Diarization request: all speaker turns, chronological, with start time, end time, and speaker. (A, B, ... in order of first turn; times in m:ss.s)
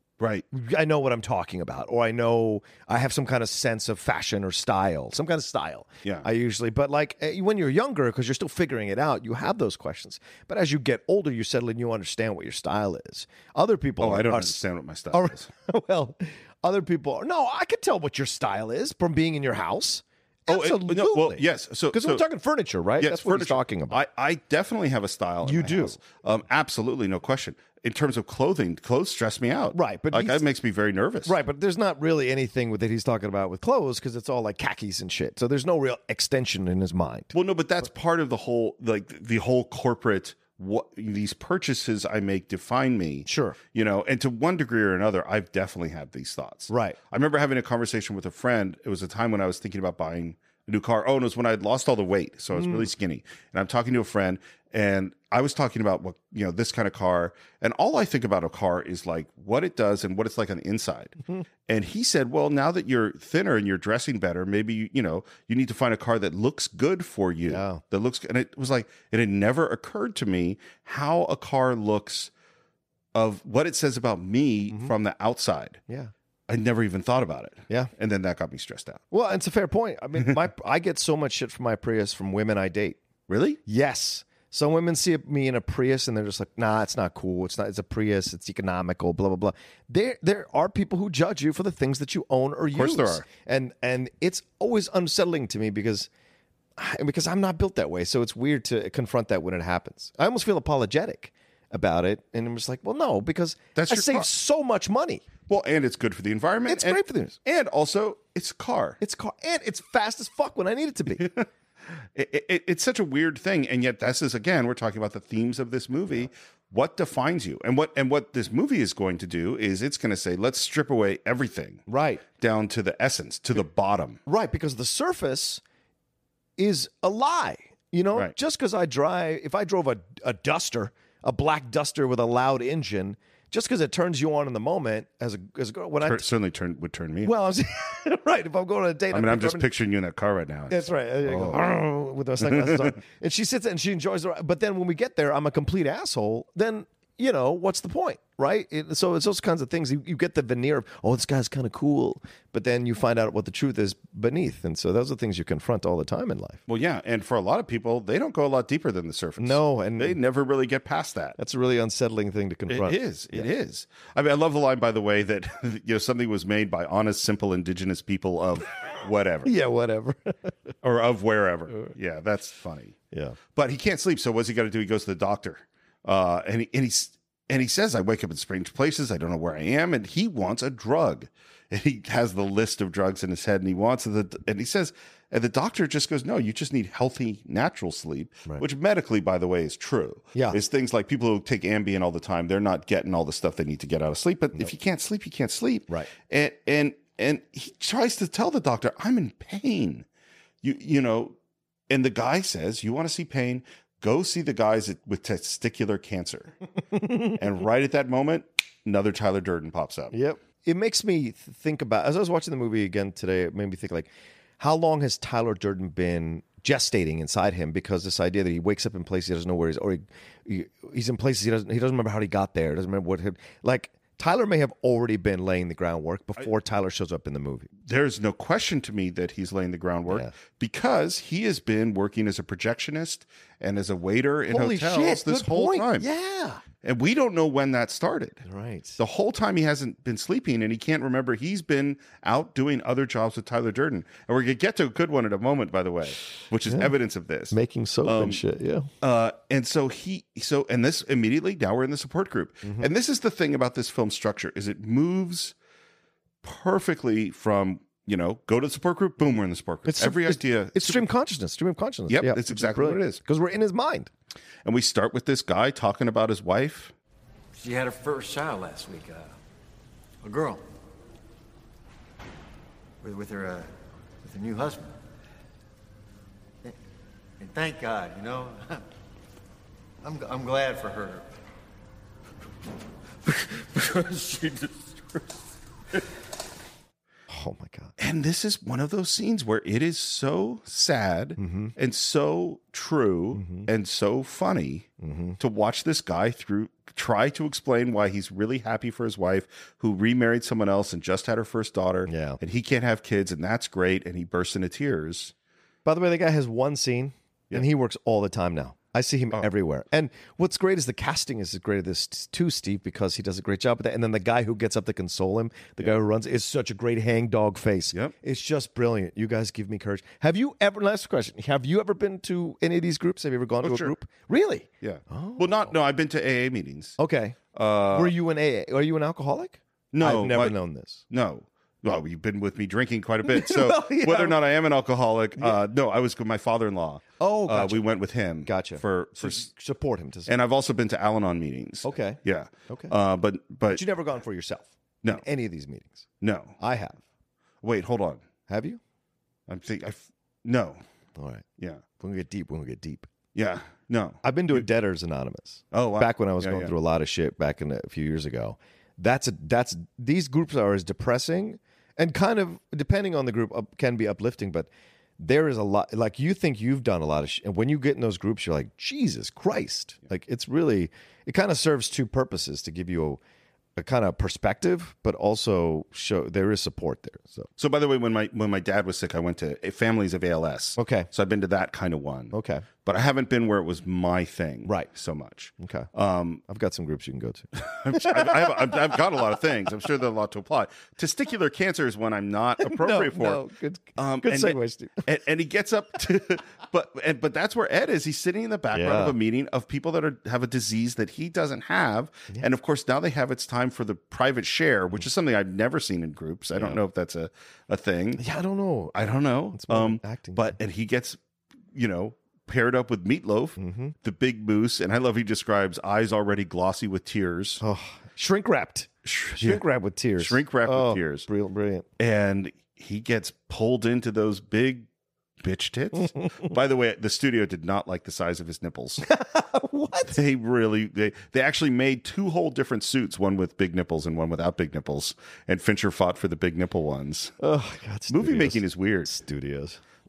0:00.2-0:00.4 A
0:00.5-0:24.0 B
0:14.0-0:15.5 A
0:20.5-0:22.2 A
0:23.0-0:31.4 A
0:25.4-0:26.0 B
0:29.7-0:30.4 B
0:31.2-0:37.3 B
0:37.3-1:12.3 A
0:43.3-0:43.6 B
0:46.7-0:47.0 B
0:52.5-0:52.9 B
1:07.5-1:07.8 B
1:13.1-1:15.8 A
1:14.7-1:14.9 B
1:16.5-1:19.0 A
1:19.1-1:23.0 B
1:23.3-1:23.6 A
1:23.6-1:36.1 B
1:32.7-1:33.3 A
1:36.8-1:45.3 B
1:43.8-1:44.3 A
1:45.5-1:49.0 A
1:46.7-1:47.4 B
1:49.0-1:51.3 B
1:51.1-1:51.4 A
1:52.1-2:01.8 A
2:01.9-2:02.2 B
2:02.4-2:04.2 A
2:04.3-2:05.6 B
2:06.6-2:16.3 B
2:16.0-2:17.3 A
2:17.2-2:19.7 B
2:19.1-2:21.7 A
2:20.7-2:36.6 B
2:22.4-2:23.0 A
2:36.7-2:41.4 A
2:39.4-2:40.2 B
2:41.4-2:43.5 B
2:42.7-2:49.5 A
2:49.4-2:50.5 B
2:50.8-2:53.0 A
2:53.1-2:53.4 B
2:53.6-3:20.1 A
3:10.3-3:10.6 B
3:20.6-3:21.4 A
3:21.9-3:26.6 A
3:26.9-3:27.4 B
3:27.3-3:30.2 A
3:30.1-3:47.7 B
3:47.9-3:56.1 A
3:50.1-3:50.3 B
3:54.5-3:56.6 B
3:56.8-3:58.4 A
3:58.4-3:59.0 B
3:59.0-4:08.4 A
4:06.7-4:06.9 B
4:07.5-4:08.9 B
4:09.0-4:15.6 A
4:12.6-4:12.9 B
4:16.4-4:21.1 A
4:19.9-4:24.1 B
4:22.1-4:23.2 A
4:24.6-4:26.9 A
4:27.5-4:29.3 C
4:30.2-4:30.6 C
4:33.0-4:35.0 C
4:37.4-4:38.8 C
4:40.0-4:41.3 C
4:43.2-4:45.4 C
4:47.3-4:47.9 B
4:48.0-4:54.9 A
4:51.4-4:51.7 B
4:53.3-4:53.7 B
4:55.0-4:55.4 B
4:55.4-5:05.3 A
5:02.1-5:02.4 B
5:05.8-5:25.7 B
5:23.6-5:23.9 A
5:24.8-5:27.0 A
5:27.0-5:27.4 B
5:27.5-5:28.1 A
5:27.9-5:31.0 B
5:29.9-5:30.6 A
5:31.1-5:39.5 A
5:33.3-5:34.4 B
5:37.2-5:37.9 B
5:38.4-5:40.3 B
5:40.3-5:43.8 A
5:41.8-5:42.9 B
5:43.7-5:46.1 B
5:46.2-5:46.6 A
5:46.6-5:47.0 B
5:47.6-5:48.2 A
5:48.5-5:48.8 B
5:49.5-5:50.8 A
5:51.2-5:51.4 B
5:52.0-5:53.1 B
5:53.4-5:54.7 A
5:54.2-6:13.2 B
5:55.7-5:56.8 A
6:13.8-6:17.5 B
6:17.6-6:26.4 A
6:20.8-6:21.1 B
6:22.3-6:22.6 B
6:25.6-6:25.9 B
6:26.5-6:29.0 B
6:27.6-6:33.4 A
6:32.6-6:35.1 B
6:34.0-6:48.2 A
6:38.7-6:39.2 B
6:46.6-6:46.8 B
6:48.2-6:50.6 B
6:48.9-6:51.2 A
6:51.7-6:57.6 A
6:53.6-6:53.9 B
6:57.6-7:01.9 B
6:59.0-6:59.6 A
7:00.2-7:01.3 A
7:02.0-7:04.9 A
7:05.4-7:09.1 A
7:09.0-7:10.2 B
7:10.1-7:17.3 A
7:17.4-7:19.8 B
7:18.1-7:19.1 A